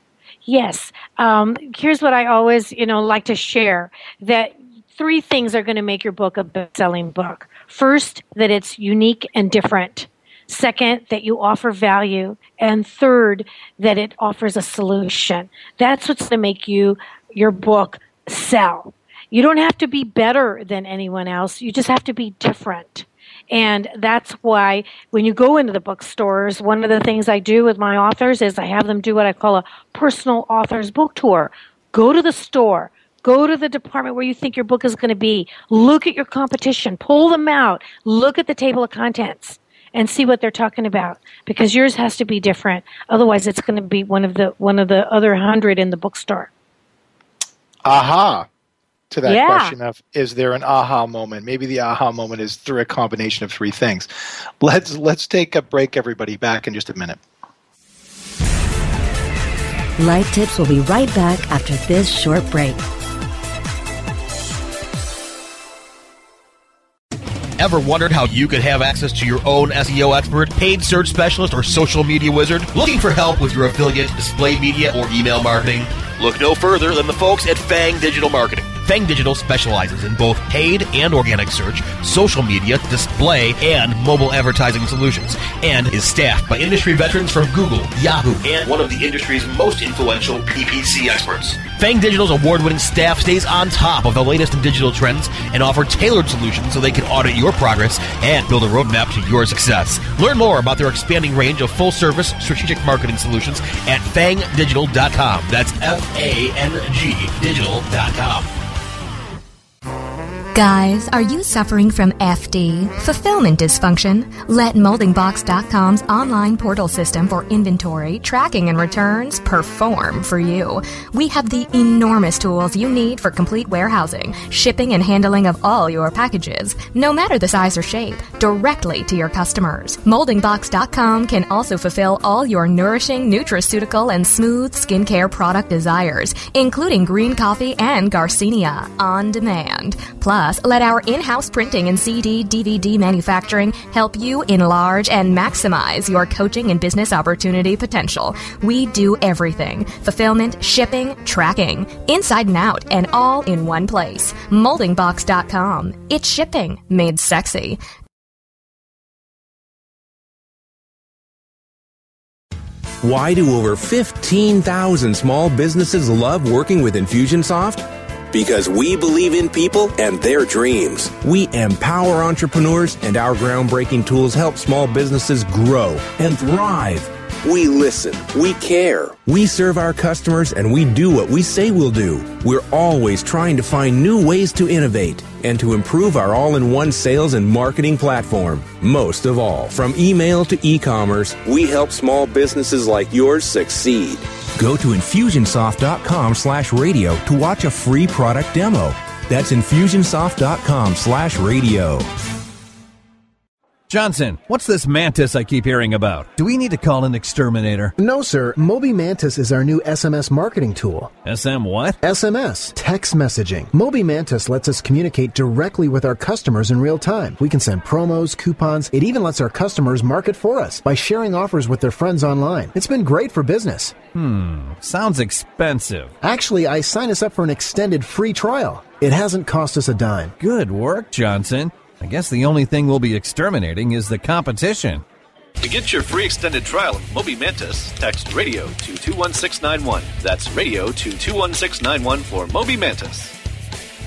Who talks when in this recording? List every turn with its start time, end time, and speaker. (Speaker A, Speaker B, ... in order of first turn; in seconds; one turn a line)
Speaker A: 0.5-46.5
Speaker B: 47.8-48.5
Speaker B: 49.1-57.2
Speaker A: 49.2-49.7
Speaker C: 60.0-62.8
Speaker D: 67.6-108.5
Speaker E: 110.5-157.8
Speaker F: 163.0-202.1
Speaker G: 203.9-207.9
Speaker H: 208.0-211.1
Speaker G: 211.2-212.0
Speaker H: 212.0-224.0
Speaker G: 224.1-226.1
Speaker H: 226.2-230.3
Speaker G: 230.4-235.0
Speaker I: 235.6-243.3